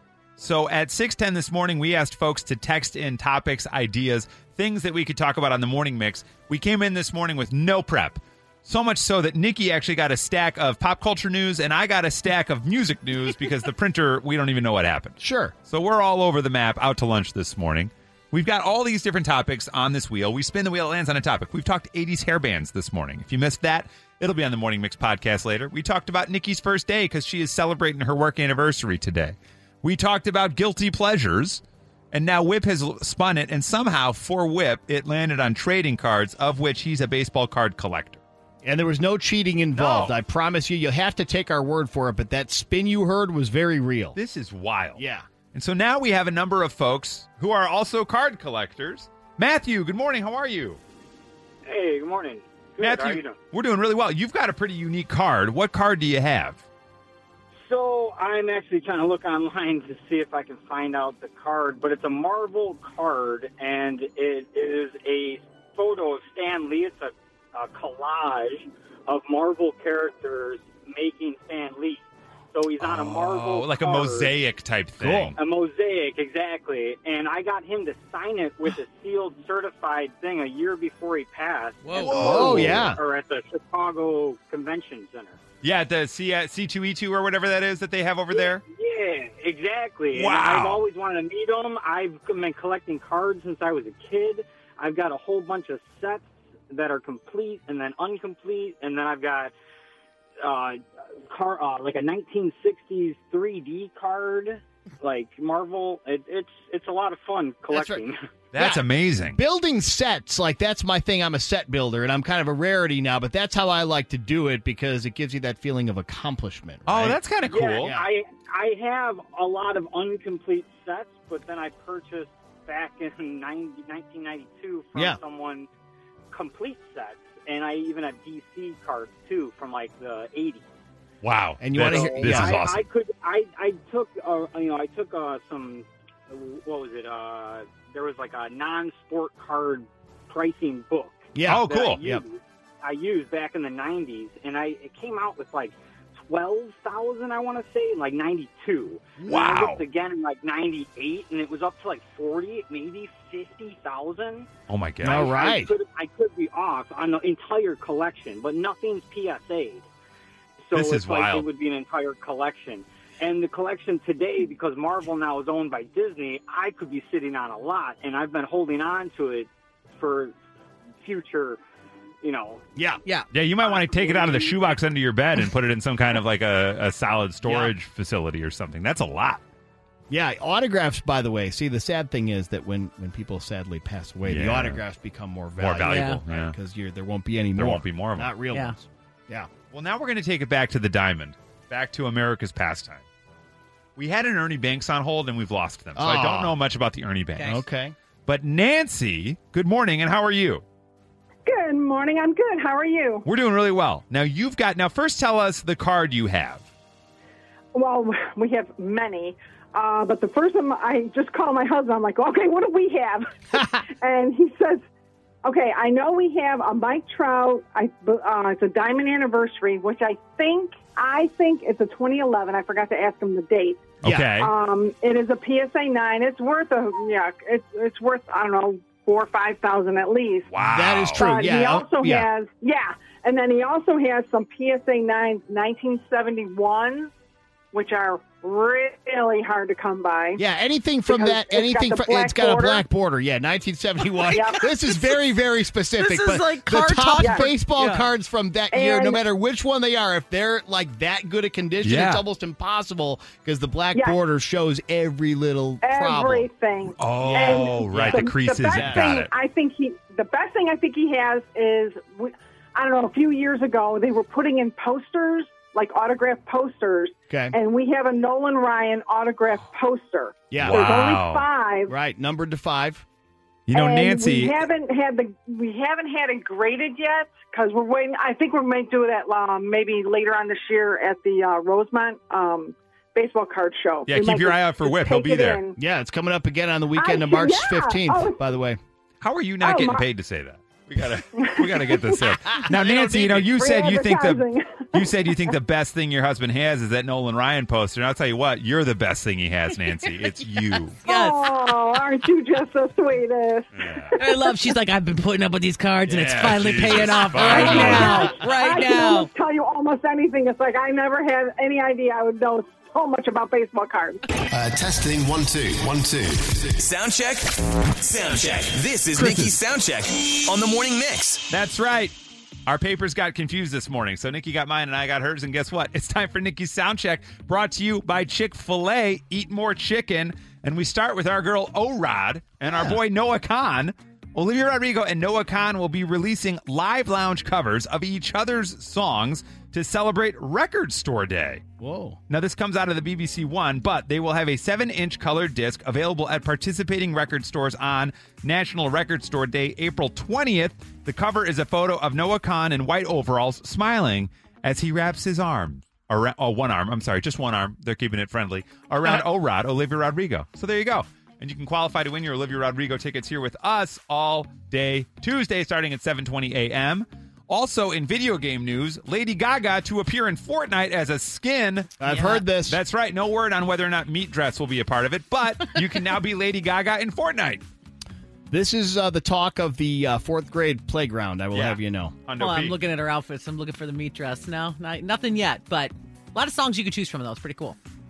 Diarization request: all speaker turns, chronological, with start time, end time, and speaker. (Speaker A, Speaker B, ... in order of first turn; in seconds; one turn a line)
Speaker A: 0.4-38.2
Speaker B: 15.2-15.5
Speaker B: 38.6-44.2
Speaker A: 39.7-40.2
Speaker A: 44.1-45.0
Speaker B: 45.0-45.2
Speaker A: 45.5-50.8
Speaker C: 51.6-53.4
Speaker A: 52.8-56.6
Speaker C: 57.6-74.3
Speaker A: 72.8-75.4
Speaker B: 75.0-75.3
Speaker C: 75.4-85.4
Speaker D: 81.9-82.2
Speaker A: 81.9-82.9
Speaker B: 82.1-83.0
Speaker A: 85.6-88.6
Speaker C: 88.3-99.5
Speaker A: 90.1-90.8
Speaker C: 100.4-108.2
Speaker B: 107.7-108.0
Speaker A: 108.5-109.4
Speaker B: 108.6-117.2
Speaker A: 116.9-117.9
Speaker C: 117.4-125.7
Speaker B: 117.8-118.1
Speaker C: 126.3-130.6
Speaker A: 131.2-132.8
Speaker B: 131.6-132.6
Speaker C: 131.9-145.8
Speaker B: 141.3-142.2
Speaker A: 141.4-142.0
Speaker C: 146.3-154.5
Speaker A: 149.2-149.8
Speaker A: 154.7-155.4
Speaker B: 155.0-155.8
Speaker C: 155.1-159.9
Speaker C: 160.7-170.3
Speaker A: 160.7-161.5
Speaker C: 171.0-171.6
Speaker C: 172.2-172.6
Speaker B: 172.8-173.0
Speaker A: 173.3-179.4
Speaker C: 173.6-174.6
Speaker B: 177.4-177.7
Speaker B: 180.1-189.5
Speaker A: 184.2-184.8
Speaker A: 185.6-186.6
Speaker D: 185.9-186.2
Speaker A: 187.6-188.3
Speaker A: 189.7-193.1
Speaker A: 194.0-197.6
Speaker B: 195.9-196.6
Speaker D: 197.3-197.6
Speaker B: 197.4-197.9
Speaker A: 198.3-200.6
Speaker E: 201.4-203.2
Speaker A: 203.2-206.7
Speaker E: 207.7-214.8
Speaker E: 215.4-230.5
Speaker A: 224.0-224.5
Speaker B: 224.0-224.3
Speaker A: 230.5-231.2
Speaker B: 230.6-232.3
Speaker E: 231.1-237.1
Speaker E: 237.7-240.4
Speaker B: 240.4-256.5
Speaker E: 241.1-242.8
Speaker E: 244.3-244.7
Speaker D: 245.9-248.1
Speaker E: 247.2-247.5
Speaker E: 248.7-249.2
Speaker A: 251.8-252.2
Speaker E: 255.8-271.9
Speaker A: 257.0-259.3
Speaker B: 257.1-259.1
Speaker B: 267.3-267.6
Speaker B: 270.5-270.9
Speaker A: 270.6-271.5
Speaker B: 271.9-273.0
Speaker A: 273.7-274.6
Speaker E: 273.7-285.8
Speaker A: 284.1-285.6
Speaker B: 285.8-288.8
Speaker E: 286.9-288.4
Speaker A: 289.2-301.0
Speaker E: 289.6-290.1
Speaker E: 291.4-295.5
Speaker B: 292.6-293.5
Speaker D: 301.0-301.5
Speaker E: 301.1-304.3
Speaker A: 303.8-304.1
Speaker D: 304.1-309.3
Speaker A: 306.1-308.3
Speaker E: 307.5-314.2
Speaker B: 307.5-308.1
Speaker F: 314.5-316.8
Speaker G: 316.8-321.4
Speaker A: 321.5-341.6
Speaker B: 332.7-333.0
Speaker B: 341.8-342.2
Speaker A: 342.3-377.6
Speaker B: 372.0-372.8
Speaker B: 378.5-382.2
Speaker A: 381.5-382.8
Speaker D: 382.4-387.8